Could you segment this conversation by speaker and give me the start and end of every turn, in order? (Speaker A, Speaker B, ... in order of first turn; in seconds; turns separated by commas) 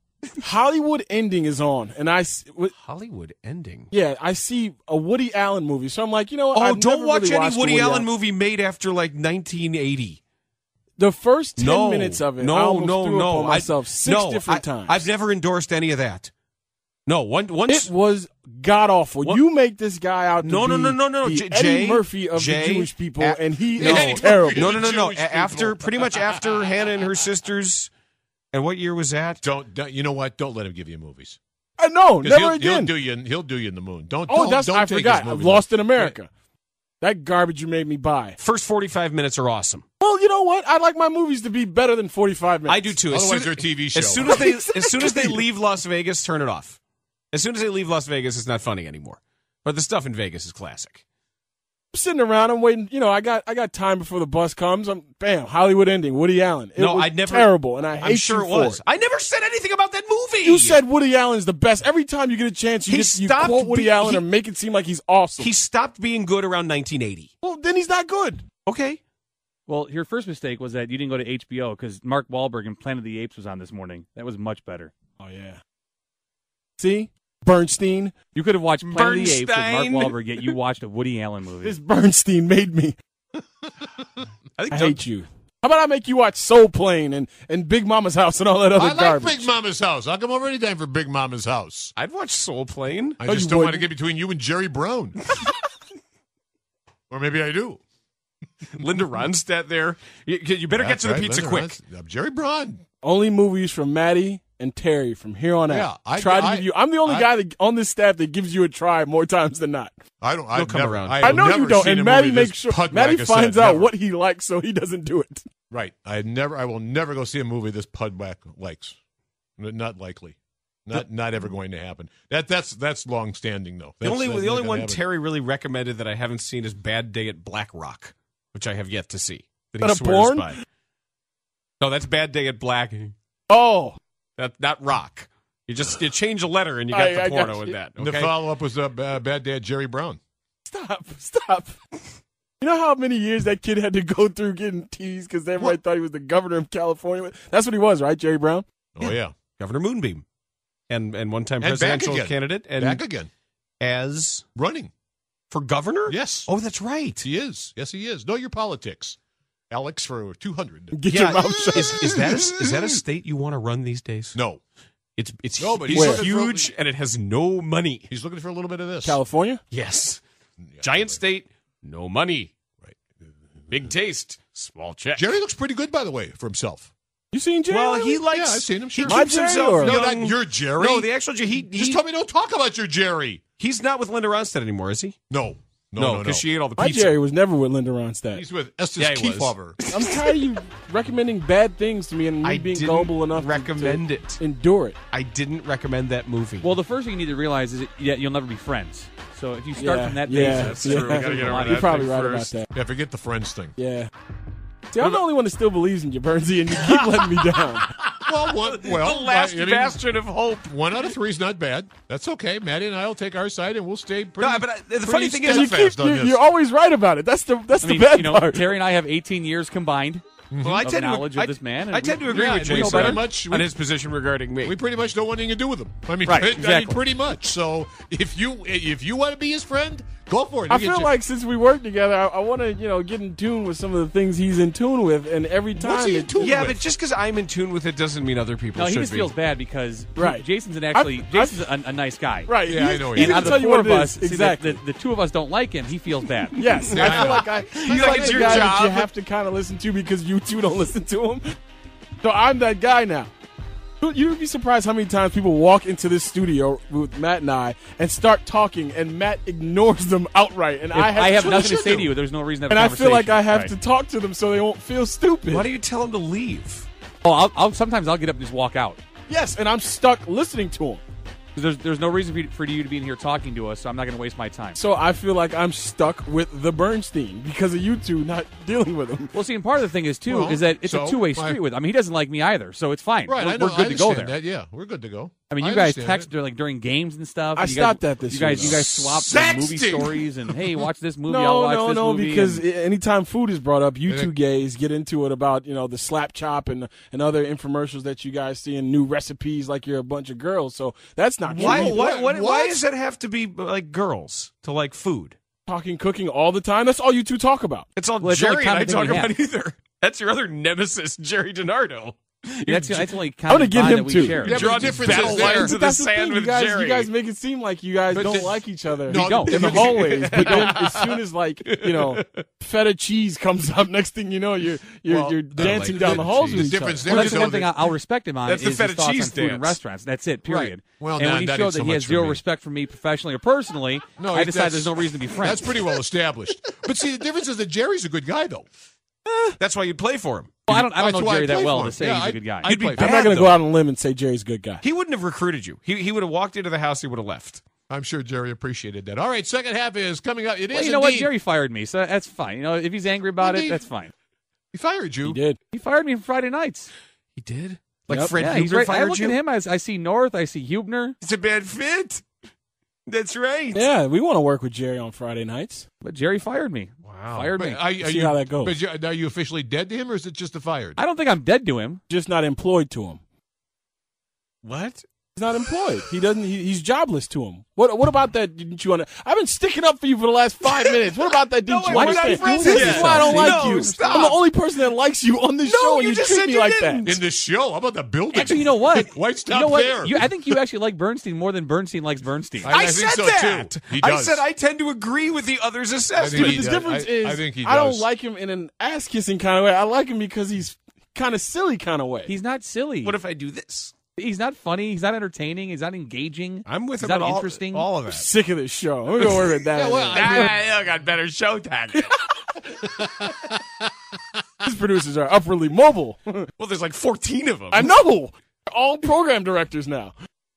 Speaker A: 0.4-2.7, Speaker B: 2.8-3.9, Speaker A: 3.9-8.1, Speaker B: 6.5-10.2, Speaker A: 11.0-15.1, Speaker B: 11.6-16.3, Speaker B: 17.1-17.9, Speaker A: 17.7-24.8, Speaker B: 20.4-27.9, Speaker C: 23.8-26.7, Speaker B: 28.5-29.4, Speaker C: 29.4-31.4, Speaker A: 31.8-32.9, Speaker C: 32.2-36.2, Speaker A: 34.3-36.3, Speaker A: 37.0-38.4, Speaker B: 38.4-39.8, Speaker A: 40.0-42.9, Speaker B: 42.7-46.8, Speaker C: 43.1-44.2, Speaker A: 44.2-45.3, Speaker B: 47.3-51.0, Speaker A: 51.9-58.8, Speaker B: 56.8-60.8, Speaker A: 60.4-65.5, Speaker B: 62.9-64.3, Speaker B: 65.4-67.3, Speaker A: 67.4-68.4, Speaker B: 68.7-69.0, Speaker D: 69.7-74.9, Speaker A: 75.2-75.6, Speaker A: 76.8-78.1, Speaker D: 78.3-81.8, Speaker B: 78.9-80.5, Speaker A: 81.6-83.0, Speaker B: 84.6-85.0, Speaker A: 84.7-89.5, Speaker C: 88.8-91.9, Speaker B: 92.0-93.2, Speaker C: 93.2-95.3, Speaker A: 93.2-93.9, Speaker C: 97.1-97.8, Speaker B: 98.7-101.8, Speaker C: 100.7-102.8, Speaker A: 103.0-109.9, Speaker C: 105.7-107.3, Speaker C: 110.2-113.9, Speaker B: 110.5-111.4, Speaker A: 111.2-115.5, Speaker C: 115.7-119.0, Speaker C: 119.6-120.4, Speaker C: 120.9-125.0, Speaker B: 124.0-130.6, Speaker A: 129.8-130.6, Speaker B: 131.8-133.1, Speaker A: 133.5-134.0, Speaker B: 134.4-138.4, Speaker A: 136.9-137.8, Speaker C: 138.0-140.2, Speaker A: 140.7-141.8, Speaker A: 142.6-148.7, Speaker C: 149.0-149.3, Speaker B: 149.0-150.2, Speaker B: 150.9-153.0, Speaker C: 151.6-153.3, Speaker B: 153.8-154.5, Speaker C: 154.6-154.9, Speaker B: 155.5-157.2, Speaker C: 156.1-156.5, Speaker C: 157.2-159.2, Speaker C: 159.7-161.0, Speaker A: 160.9-162.3, Speaker B: 161.1-164.4, Speaker C: 161.9-163.0, Speaker C: 164.3-164.6, Speaker B: 165.2-168.1, Speaker C: 165.6-166.7, Speaker A: 165.9-166.2, Speaker C: 168.1-169.2, Speaker A: 169.0-169.6, Speaker B: 169.7-170.2, Speaker C: 170.6-171.2, Speaker B: 170.8-172.5, Speaker C: 172.8-173.3, Speaker B: 173.7-175.3, Speaker C: 175.2-176.9, Speaker A: 177.3-178.2, Speaker B: 177.7-182.0, Speaker C: 178.3-183.4, Speaker A: 179.0-180.0, Speaker B: 183.6-185.2, Speaker C: 185.3-186.4, Speaker B: 186.0-187.2, Speaker A: 186.8-188.4, Speaker C: 188.3-189.8, Speaker B: 189.0-190.4, Speaker A: 189.9-195.0, Speaker B: 192.4-194.4, Speaker B: 195.1-196.7, Speaker D: 196.6-202.1, Speaker A: 199.8-202.7, Speaker B: 200.4-202.6, Speaker C: 201.3-201.8, Speaker C: 202.7-203.7, Speaker A: 203.8-204.1, Speaker A: 204.9-207.9, Speaker B: 206.7-211.1, Speaker C: 208.3-210.1, Speaker C: 210.7-216.4, Speaker B: 214.4-215.7, Speaker A: 215.5-218.7, Speaker D: 217.8-223.3, Speaker C: 220.5-220.9, Speaker B: 220.6-224.8, Speaker C: 222.3-223.7, Speaker C: 224.6-231.1, Speaker D: 226.2-227.0, Speaker A: 230.7-236.3, Speaker C: 235.8-236.8, Speaker B: 236.4-239.3, Speaker D: 238.8-242.5, Speaker A: 240.2-241.6, Speaker A: 242.5-244.8, Speaker C: 242.7-243.6, Speaker D: 243.1-246.6, Speaker A: 246.6-251.6, Speaker B: 246.9-249.1, Speaker C: 247.0-248.8, Speaker A: 252.2-253.3, Speaker A: 254.0-262.1, Speaker D: 260.9-263.7, Speaker A: 262.7-265.7, Speaker B: 265.5-266.9, Speaker D: 267.2-269.0, Speaker A: 269.3-271.0, Speaker D: 271.6-274.8, Speaker A: 274.8-279.3, Speaker D: 279.3-284.4, Speaker C: 280.3-281.6, Speaker C: 283.3-286.3, Speaker D: 285.5-292.6, Speaker A: 287.6-288.9, Speaker C: 288.5-290.6, Speaker A: 291.3-302.0, Speaker C: 294.1-294.3, Speaker B: 301.5-305.4, Speaker C: 301.5-302.8, Speaker A: 305.7-307.9, Speaker B: 308.0-313.1, Speaker D: 308.2-309.3, Speaker D: 312.7-314.9, Speaker A: 313.5-314.5, Speaker C: 314.2-315.7, Speaker B: 314.4-317.1, Speaker A: 315.1-327.3, Speaker C: 318.1-320.5, Speaker D: 319.1-320.7, Speaker B: 319.7-322.4, Speaker C: 325.1-327.7, Speaker B: 325.5-327.7, Speaker D: 327.1-335.9, Speaker B: 328.5-329.8, Speaker C: 330.5-332.4, Speaker C: 334.2-338.7, Speaker B: 339.6-340.7, Speaker D: 340.7-342.7, Speaker C: 340.7-343.3, Speaker B: 342.6-343.6, Speaker A: 343.0-344.8, Speaker B: 344.8-347.6, Speaker C: 347.9-351.3, Speaker D: 350.7-354.1, Speaker C: 353.4-353.9, Speaker C: 354.7-355.4, Speaker A: 355.2-355.6, Speaker D: 355.7-356.9, Speaker B: 357.4-359.4, Speaker A: 358.1-358.4, Speaker D: 358.3-361.2, Speaker B: 361.2-362.3, Speaker B: 363.1-363.8, Speaker A: 363.7-365.9, Speaker D: 366.0-367.9, Speaker B: 367.1-367.5, Speaker C: 367.3-371.0, Speaker A: 368.0-368.8, Speaker D: 371.0-372.0, Speaker A: 372.1-373.2, Speaker B: 374.6-375.0, Speaker A: 375.4-387.1, Speaker B: 380.7-381.0, Speaker B: 381.6-384.4, Speaker D: 381.9-384.4, Speaker B: 385.6-387.2, Speaker C: 387.1-390.6, Speaker D: 388.3-392.7, Speaker C: 392.6-394.4, Speaker B: 392.6-396.7, Speaker C: 396.2-398.1, Speaker A: 396.3-402.3, Speaker D: 402.3-403.2, Speaker B: 403.0-403.9, Speaker D: 404.2-407.9, Speaker B: 406.7-408.3, Speaker A: 408.1-410.5, Speaker C: 409.7-410.5, Speaker B: 410.1-412.2, Speaker C: 413.0-413.5, Speaker A: 414.6-416.5, Speaker B: 416.6-417.9, Speaker A: 417.7-420.1